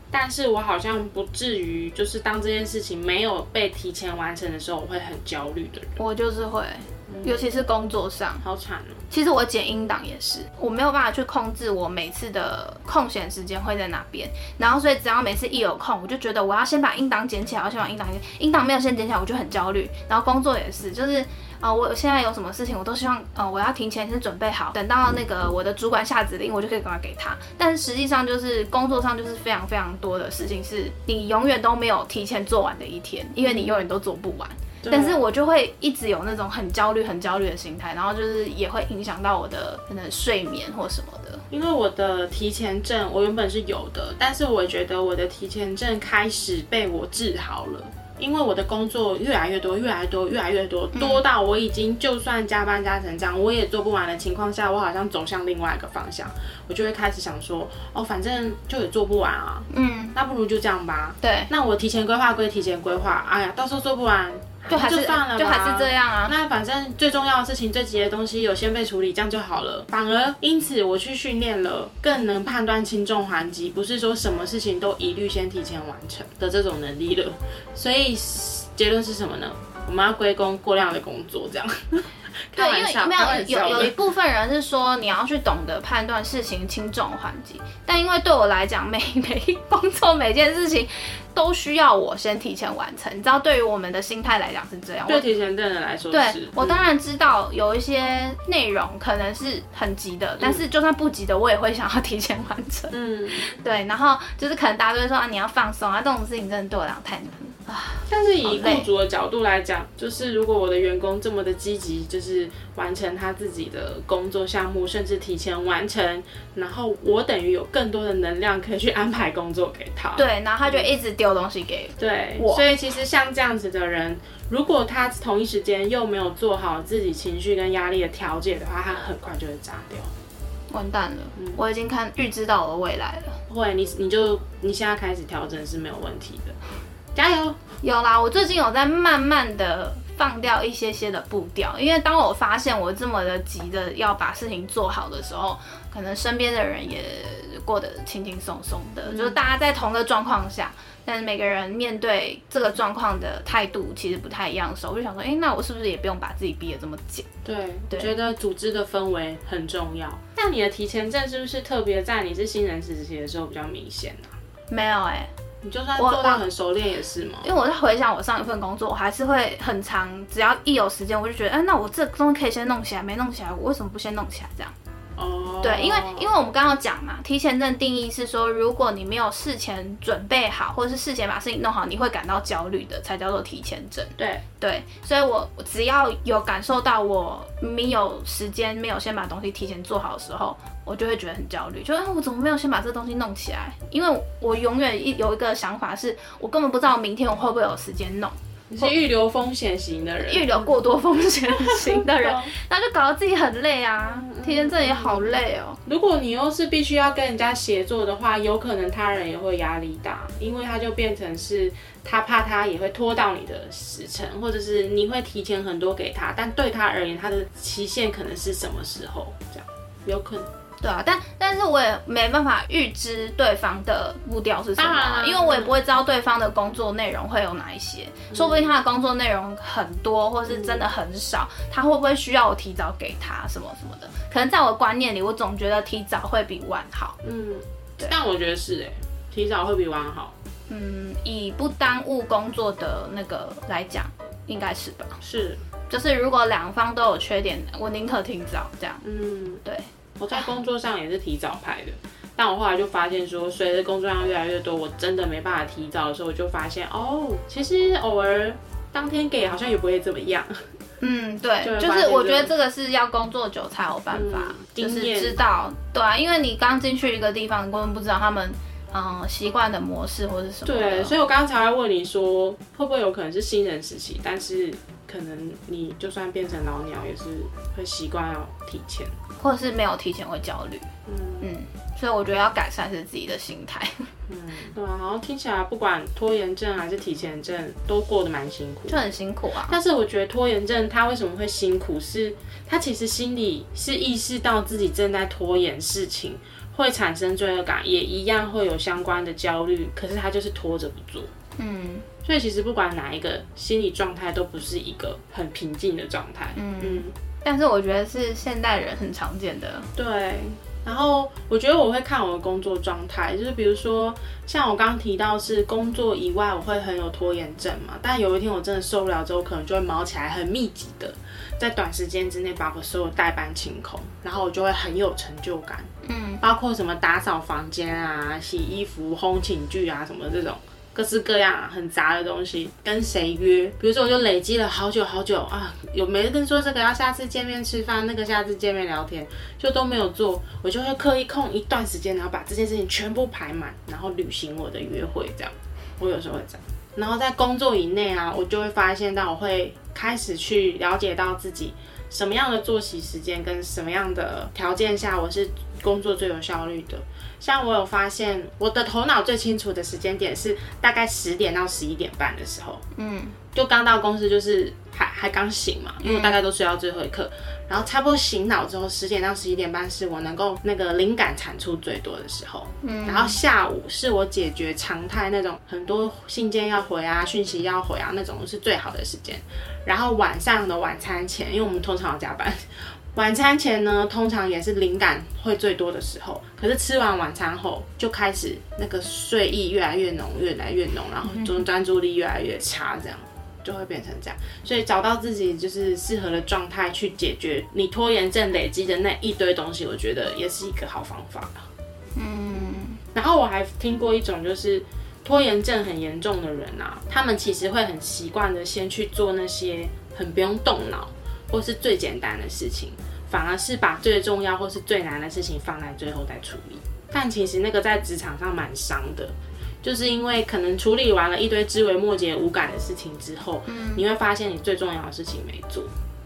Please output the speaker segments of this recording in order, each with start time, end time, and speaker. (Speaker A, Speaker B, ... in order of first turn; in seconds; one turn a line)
Speaker A: 0.1-6.0
Speaker B: 6.0-8.4
Speaker A: 7.1-7.5
Speaker A: 8.4-9.1
Speaker B: 9.1-41.5
Speaker A: 33.5-33.8
Speaker A: 34.8-35.2
Speaker A: 41.5-84.0
Speaker B: 51.0-51.2
Speaker B: 59.7-60.2
Speaker B: 61.2-61.5
Speaker B: 64.7-66.3
Speaker B: 82.6-95.3
Speaker A: 95.1-96.8
Speaker B: 96.1-108.9
Speaker A: 102.9-103.6
Speaker A: 108.1-120.9
Speaker B: 120.2-122.7
Speaker A: 122.0-130.1
Speaker B: 130.7-133.4
Speaker A: 133.5-136.6
Speaker A: 137.2-137.6
Speaker B: 137.8-157.3
Speaker A: 149.1-149.4
Speaker A: 157.4-164.3
Speaker B: 164.7-165.3
Speaker A: 165.6-167.5
Speaker B: 166.0-166.4
Speaker B: 167.4-174.7
Speaker A: 175.2-176.3
Speaker B: 175.6-198.9
Speaker A: 184.2-184.4
Speaker A: 198.7-200.7
Speaker B: 200.2-205.8
Speaker A: 201.5-202.5
Speaker A: 204.2-220.5
Speaker B: 220.8-237.2
Speaker A: 224.8-225.8
Speaker A: 228.3-228.7
Speaker A: 230.5-230.9
Speaker A: 237.2-240.3
Speaker B: 240.7-245.2
Speaker A: 245.2-245.6
Speaker B: 245.9-249.0
Speaker A: 249.0-249.6
Speaker B: 249.7-250.5
Speaker A: 250.2-260.7
Speaker B: 261.0-271.1
Speaker A: 261.6-262.5
Speaker A: 264.1-265.4
Speaker A: 270.7-279.1
Speaker B: 279.4-280.9
Speaker A: 281.1-281.5
Speaker B: 281.4-284.1
Speaker A: 284.3-289.0
Speaker B: 288.9-289.8
Speaker A: 289.7-301.3
Speaker B: 301.6-302.1
Speaker A: 302.2-307.1
Speaker B: 306.6-309.9
Speaker A: 310.0-325.9
Speaker B: 326.0-326.4
Speaker A: 326.4-362.8
Speaker B: 362.9-363.4
Speaker A: 363.5-401.7
Speaker B: 366.0-366.4
Speaker B: 372.8-373.4
Speaker B: 391.3-391.6
Speaker B: 402.2-403.0
Speaker A: 403.1-425.9
Speaker B: 423.7-424.0